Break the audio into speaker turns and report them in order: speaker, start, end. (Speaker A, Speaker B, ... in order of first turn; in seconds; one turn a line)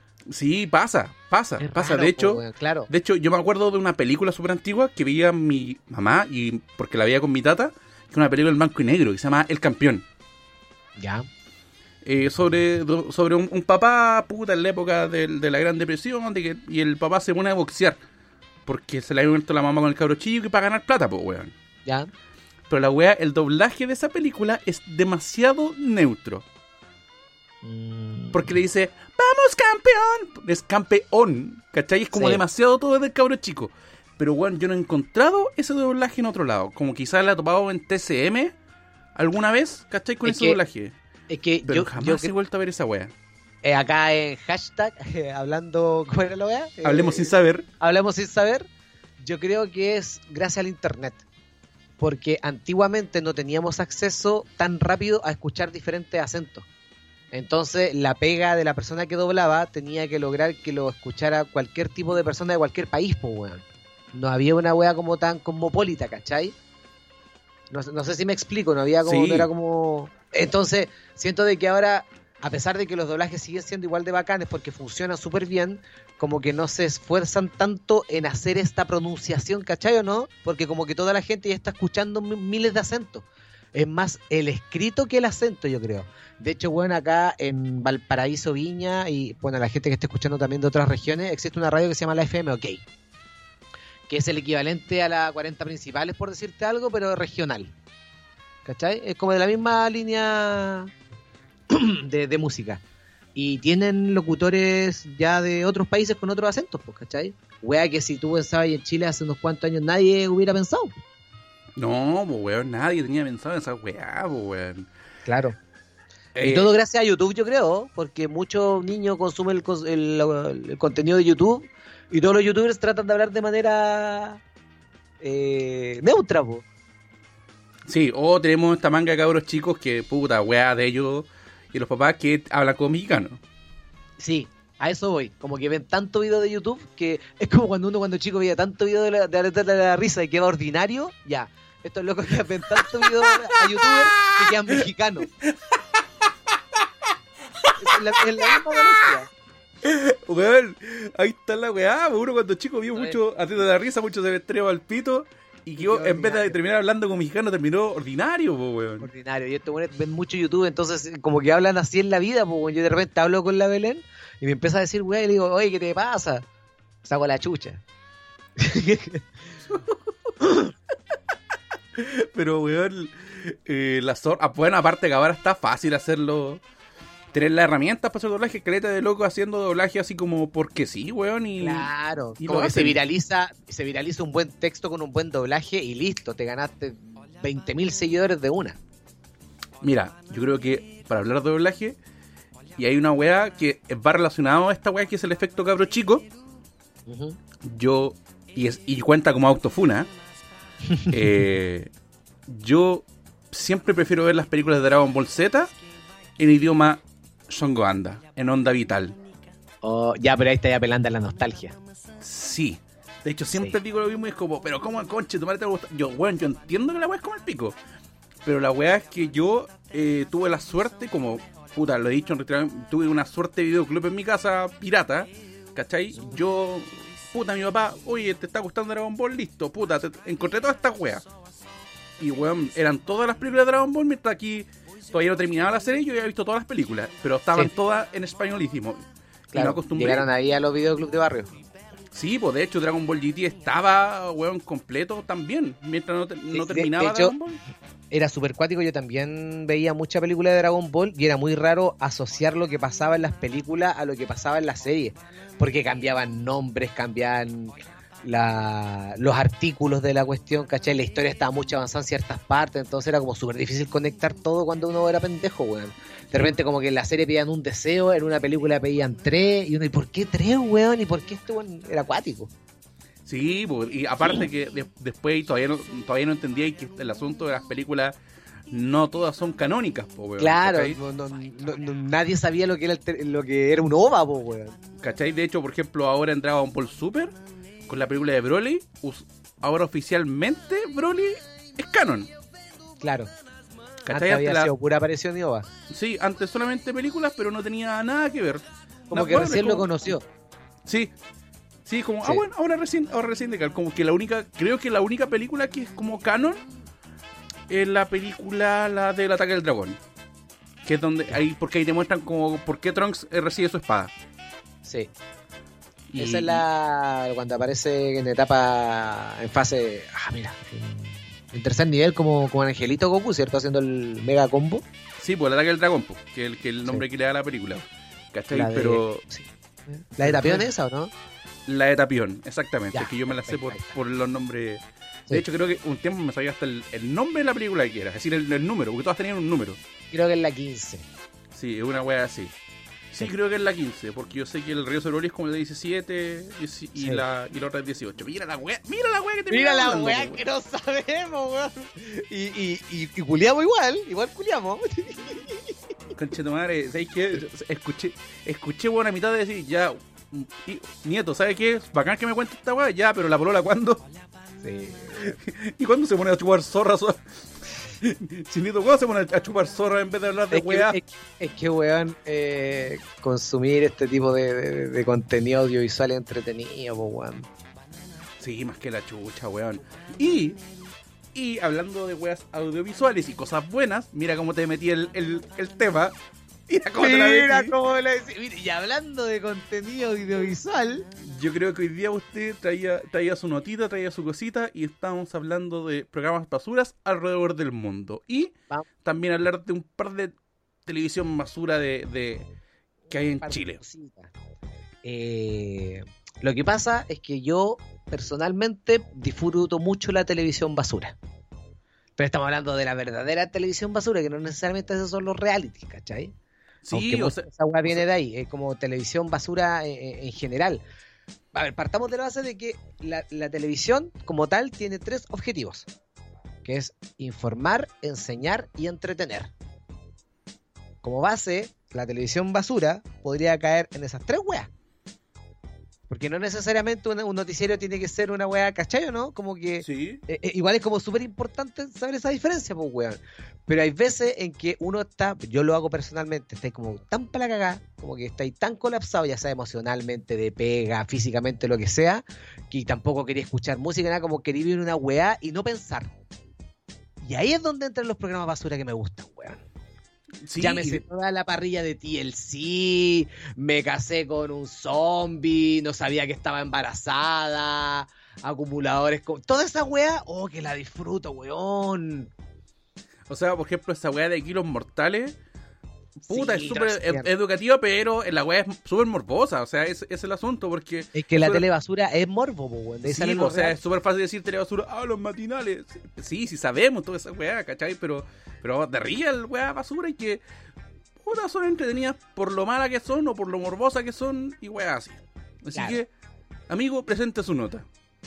Speaker A: 0.3-10.0
Speaker B: 1.6-2.9
Speaker B: 11.0-11.3
Speaker A: 12.0-18.0
Speaker A: 18.7-21.5
Speaker B: 21.8-22.1
Speaker A: 22.7-26.4
Speaker B: 27.6-28.5
Speaker A: 28.3-38.5
Speaker B: 32.1-32.4
Speaker A: 39.1-41.0
Speaker B: 40.2-40.6
Speaker B: 41.3-42.3
Speaker A: 41.7-43.1
Speaker B: 43.6-51.2
Speaker A: 46.8-47.7
Speaker B: 52.0-56.6
Speaker B: 57.3-66.5
Speaker B: 67.7-92.8
Speaker A: 69.0-69.5
Speaker B: 94.1-97.7
Speaker B: 98.6-100.9
Speaker B: 101.7-102.8
Speaker B: 103.3-111.0
Speaker A: 111.8-114.9
Speaker B: 115.2-115.6
Speaker A: 116.3-116.7
Speaker B: 116.4-124.4
Speaker B: 125.2-126.6
Speaker A: 127.9-133.4
Speaker B: 134.2-145.3
Speaker A: 142.8-143.6
Speaker A: 144.2-144.8
Speaker A: 145.3-145.8
Speaker B: 147.8-149.3
Speaker A: 149.8-159.1
Speaker B: 155.8-156.6
Speaker B: 159.0-166.4
Speaker B: 167.0-167.8
Speaker B: 168.6-169.2
Speaker A: 169.7-169.9
Speaker B: 170.4-170.7
Speaker A: 171.9-176.6
Speaker A: 177.3-183.0
Speaker B: 181.6-188.8
Speaker A: 189.8-192.0
Speaker A: 192.8-196.3
Speaker B: 197.1-197.4
Speaker A: 197.6-200.1
Speaker B: 200.8-201.1
Speaker A: 201.1-201.9
Speaker A: 202.5-205.7
Speaker A: 206.4-209.2
Speaker B: 209.8-211.8
Speaker A: 212.2-217.7
Speaker A: 218.4-231.3
Speaker A: 232.2-239.0
Speaker A: 239.5-240.2
Speaker B: 239.5-241.5
Speaker A: 242.1-247.6
Speaker B: 246.5-247.3
Speaker B: 248.1-272.5
Speaker A: 273.2-278.1
Speaker A: 278.7-281.0
Speaker B: 280.4-284.8
Speaker A: 285.0-287.3
Speaker A: 287.9-292.3
Speaker B: 293.0-293.3
Speaker A: 294.0-294.7
Speaker B: 294.1-295.7
Speaker A: 295.9-299.9
Speaker B: 299.1-300.2
Speaker A: 300.9-301.1
Speaker A: 301.9-306.6
Speaker A: 307.7-310.0
Speaker A: 310.8-314.1
Speaker B: 314.8-315.1
Speaker A: 316.1-316.6
Speaker B: 316.2-324.8
Speaker A: 325.2-329.2
Speaker B: 328.5-331.1
Speaker A: 330.2-330.6
Speaker A: 331.7-339.8
Speaker B: 332.9-334.0
Speaker B: 340.1-341.1
Speaker A: 341.5-342.5
Speaker A: 343.1-350.4
Speaker B: 347.0-347.2
Speaker B: 349.5-355.7
Speaker A: 356.1-364.0
Speaker B: 364.6-365.3
Speaker A: 365.2-367.2
Speaker A: 367.7-371.0
Speaker B: 370.5-377.5
Speaker A: 378.4-380.6
Speaker A: 381.3-386.1
Speaker A: 386.7-387.7
Speaker B: 387.0-391.1
Speaker A: 391.2-400.3
Speaker A: 400.9-402.5
Speaker A: 403.1-403.8
Speaker B: 403.4-404.3
Speaker B: 405.0-411.1
Speaker B: 412.2-416.3
Speaker A: 416.8-417.5
Speaker B: 416.9-420.8
Speaker B: 421.5-425.9
Speaker B: 426.6-429.5
Speaker B: 431.0-434.7
Speaker B: 436.1-456.2
Speaker A: 439.8-440.2
Speaker B: 457.2-459.6
Speaker A: 460.4-461.0
Speaker B: 460.6-472.3
Speaker A: 473.3-475.4
Speaker B: 476.2-477.3
Speaker A: 476.3-481.6
Speaker B: 481.1-483.8
Speaker A: 483.0-490.4
Speaker A: 491.2-496.1
Speaker A: 496.7-497.9